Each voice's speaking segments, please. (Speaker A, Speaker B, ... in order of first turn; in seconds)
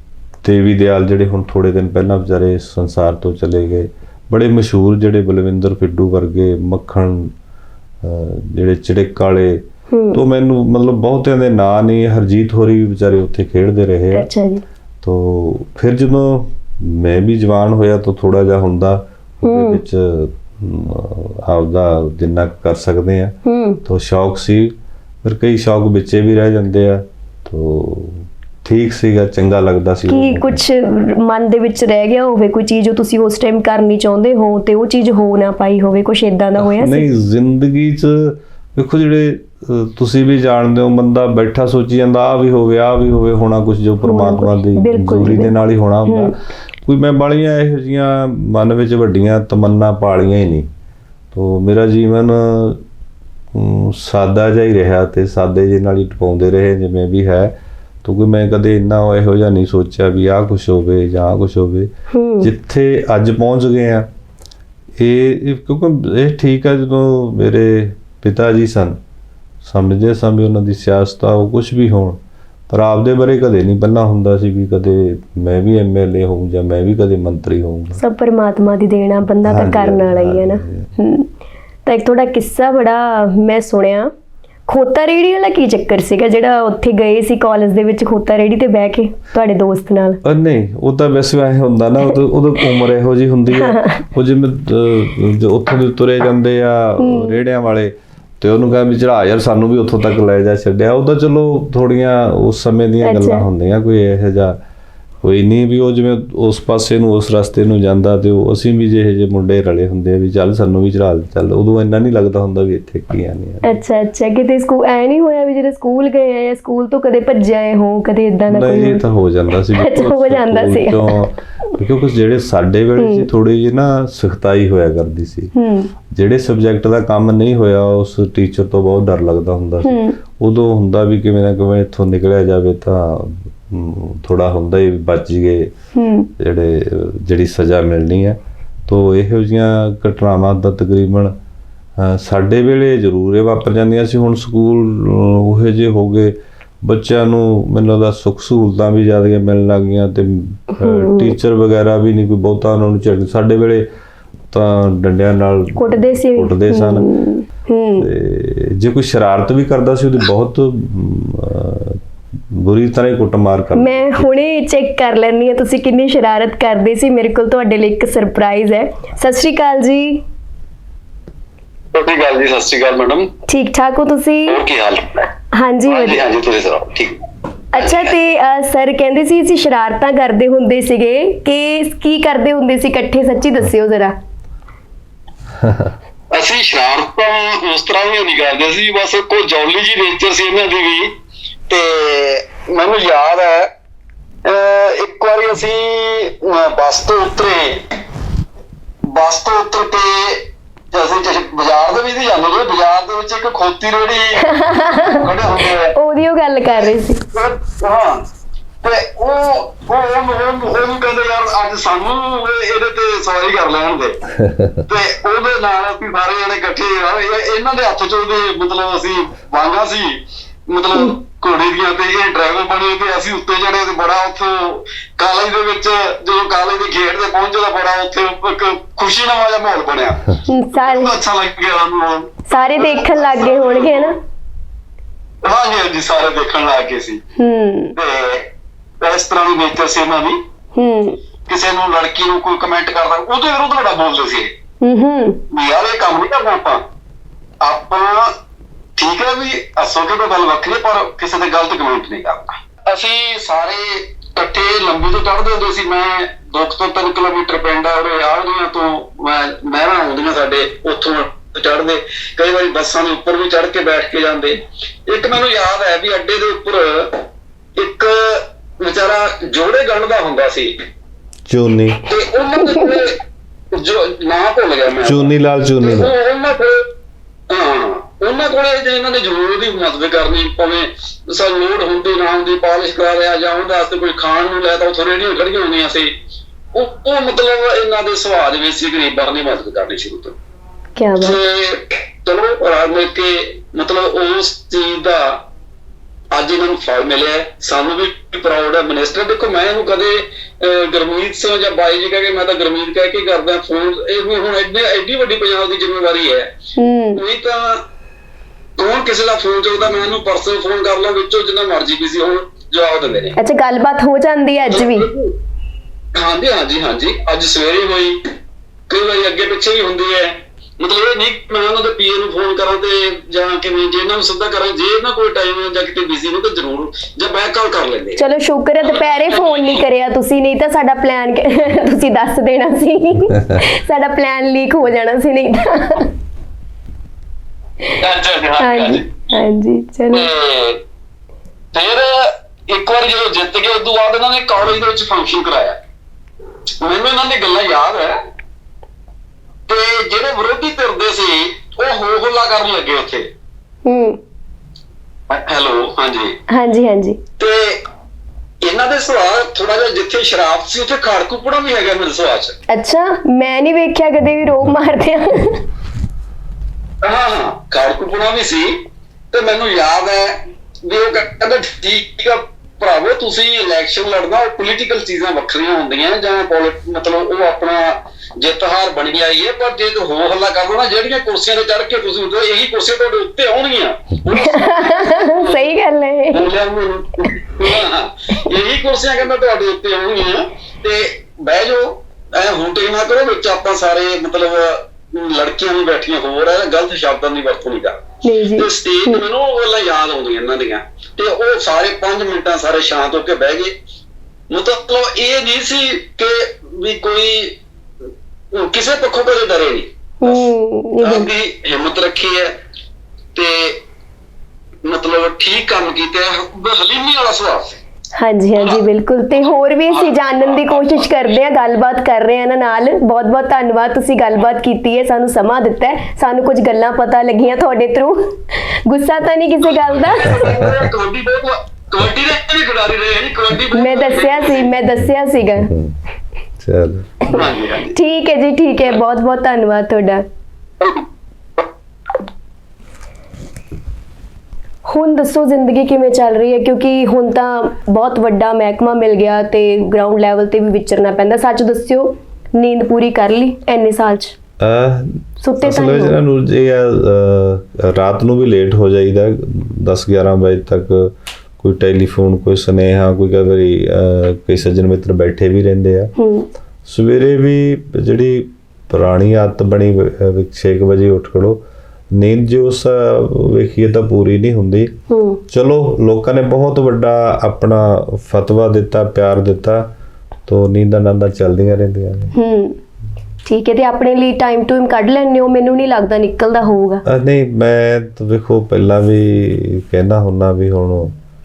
Speaker A: 0.4-7.3, 8.0-14.3, 15.0-30.6, 36.6-50.7, 51.3-52.8, 53.5-61.9, 62.4-64.1, 65.0-69.0, 69.6-78.0, 79.4-80.9, 90.2-104.6, 105.2-113.8, 118.5-125.5, 126.1-135.7, 136.4-141.3, 142.0-153.9, 154.5-157.1, 158.0-162.0, 162.5-164.3, 185.6-185.9, 214.4-214.8, 271.5-272.0, 275.0-276.1, 430.3-430.9, 435.6-436.0, 436.6-437.2, 454.6-466.1, 466.9-471.6, 472.1-474.9, 475.5-479.9, 480.5-482.3, 487.1-491.1
Speaker B: 9.9-10.2, 14.1-14.6, 19.4-19.8, 23.4-23.8, 30.1-37.1, 44.0-45.5, 46.1-46.3, 62.1-62.5, 78.0-81.3, 81.8-84.1, 84.7-90.2, 93.5-94.0, 97.0-97.4, 103.0-103.5, 113.6-119.0, 119.8-121.1, 123.0-123.3, 125.5-125.9, 129.8-130.2, 135.9-136.3, 150.8-151.3, 155.8-158.1, 163.8-170.2, 173.5-174.6, 175.5-176.2, 177.7-184.2, 204.4-207.2, 230.4-231.2, 232.5-234.2, 237.4-237.9, 240.8-241.2, 244.8-245.4, 290.9-291.4, 306.8-307.2, 313.4-315.1, 328.2-336.1, 338.6-340.3, 353.8-354.2, 356.5-357.2, 362.7-365.6, 384.3-386.5, 398.2-399.2, 410.2-411.3, 418.2-430.4, 433.7-435.7, 437.4-440.2, 444.9-454.4, 455.4-456.1, 466.2-466.5, 475.1-475.4, 482.3-482.8, 483.4-487.0
Speaker C: 171.9-173.3, 174.5-175.3, 175.9-177.2, 177.8-178.1, 186.3-191.1, 191.7-193.7, 194.4-197.8, 199.1-204.4, 205.0-205.9, 207.3-208.2, 208.8-214.2, 214.9-234.2, 235.4-237.2, 237.9-238.5, 239.0-240.4, 241.5-244.5, 245.5-246.8, 247.6-248.3, 249.0-267.2, 267.8-270.8, 272.1-273.2, 273.7-276.8, 277.5-286.1, 286.7-290.4, 291.2-295.4, 296.3-306.5, 307.1-307.8, 308.8-313.4, 314.6-315.3, 316.1-318.3, 318.9-328.2, 328.8-329.8, 338.0-339.1, 340.1-340.8, 341.7-345.8, 346.8-348.2, 349.7-353.3, 355.3-356.4, 357.4-357.8, 358.6-362.6, 367.0-368.8, 369.3-385.7, 386.3-398.0, 398.5-403.7, 404.5-407.6, 408.5-410.5, 411.0-412.5, 413.3-413.8, 414.8-417.8, 419.3-421.3, 429.7-434.7, 437.2-437.9, 440.8-441.1